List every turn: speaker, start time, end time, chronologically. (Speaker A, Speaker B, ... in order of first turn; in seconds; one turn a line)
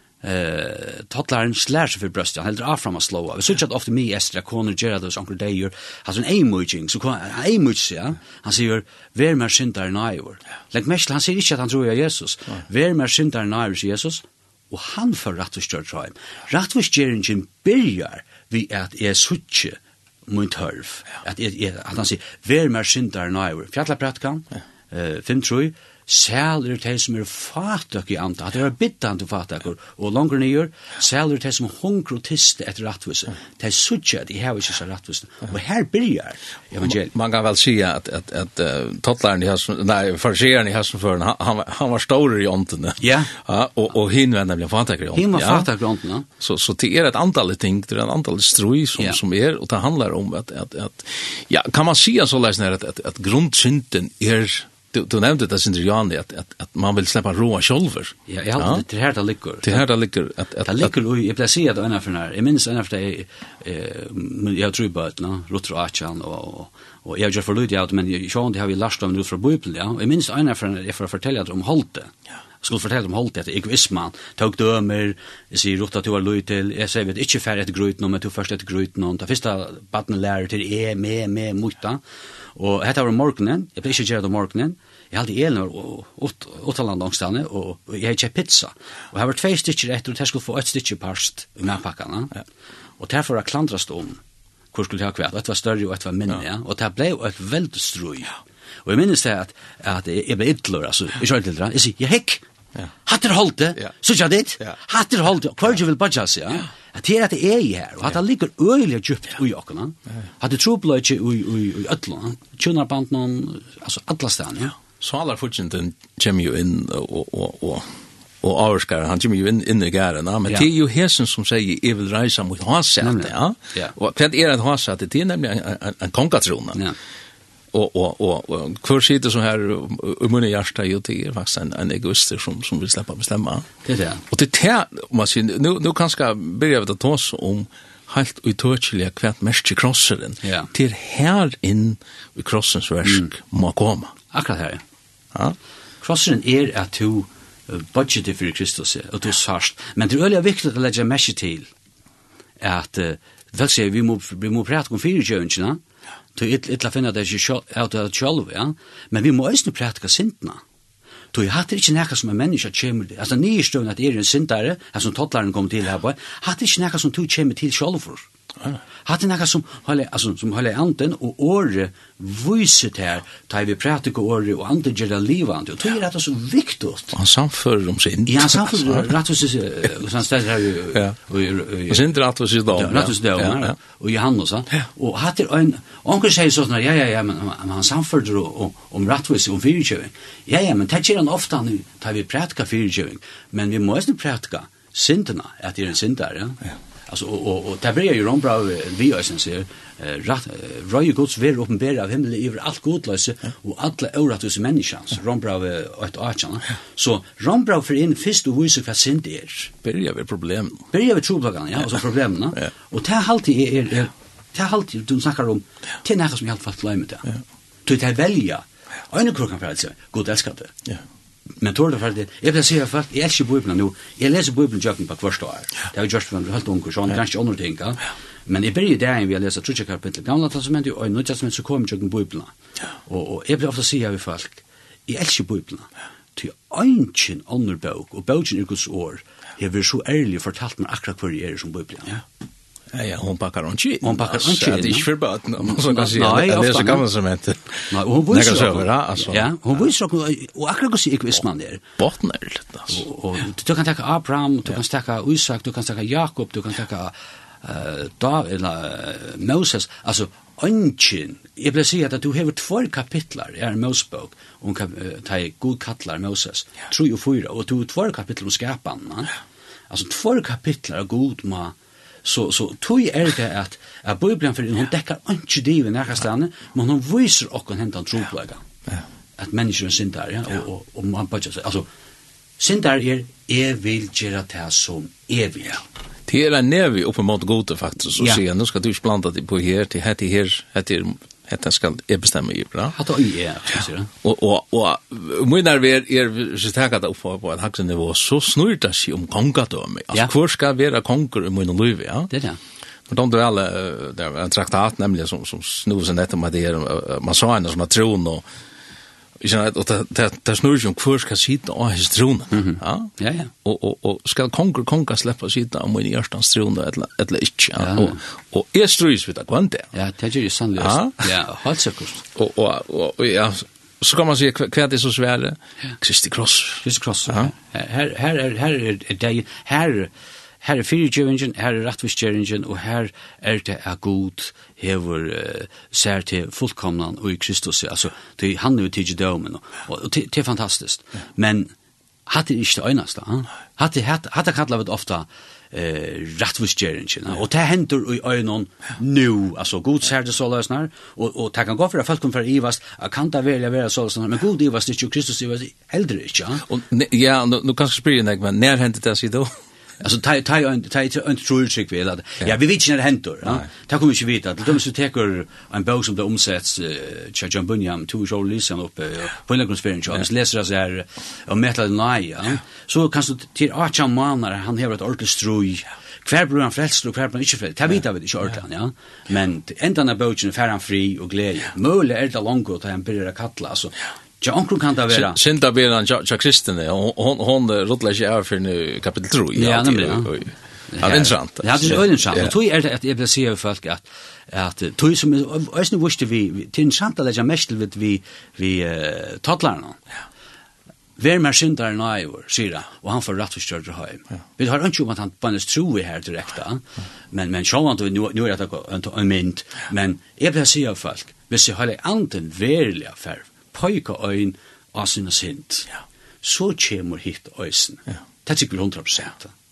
Speaker A: 0.2-37.1
Speaker B: 36.9-45.7
Speaker A: 43.0-43.3
Speaker A: 45.1-46.3
Speaker B: 46.4-58.8
Speaker A: 58.3-59.9
Speaker B: 59.6-60.9
Speaker A: 60.6-82.0
Speaker A: 82.6-92.4
Speaker A: 93.0-94.2
Speaker A: 94.7-102.5
Speaker A: 103.0-114.8
Speaker B: 114.9-117.9
Speaker B: 118.4-126.8
Speaker A: 123.0-124.0
Speaker B: 127.7-133.7
Speaker A: 133.8-134.2
Speaker B: 134.3-144.1
Speaker A: 140.4-140.7
Speaker A: 143.1-143.3
Speaker A: 144.3-144.8
Speaker A: 146.0-151.7
Speaker A: 152.6-155.8
Speaker A: 156.4-160.6
Speaker A: 161.3-168.3
Speaker A: 169.1-177.2
Speaker B: 177.1-179.1
Speaker A: 178.3-182.0
Speaker B: 181.9-183.8
Speaker A: 182.7-209.7
Speaker B: 209.8-210.9
Speaker A: 210.9-217.3
Speaker A: 217.9-220.8
Speaker A: 221.6-232.5
Speaker A: 233.1-242.2
Speaker B: 242.9-249.5
Speaker A: 244.0-245.1
Speaker A: 245.7-247.1
Speaker A: 247.9-251.8
Speaker B: 252.0-253.0
Speaker A: 252.9-269.3
Speaker A: 269.9-278.6
Speaker A: 279.4-281.9
Speaker A: 282.6-285.8
Speaker B: 286.3-293.0
Speaker A: 292.9-294.1
Speaker B: 294.2-302.3
Speaker A: 302.3-302.6
Speaker B: 303.1-308.4
Speaker B: 309.4-319.9
Speaker A: 312.5-313.5
Speaker A: 317.8-318.2
Speaker A: 319.9-322.2
Speaker B: 320.8-321.2
Speaker B: 322.4-327.5
Speaker A: 326.8-341.7
Speaker A: 342.3-356.7
Speaker B: 356.7-359.5
Speaker A: 360.0-385.4
Speaker B: 385.1-392.5
Speaker A: 389.6-390.3
Speaker A: 390.9-400.0
Speaker A: 401.2-415.9
Speaker A: 416.4-419.5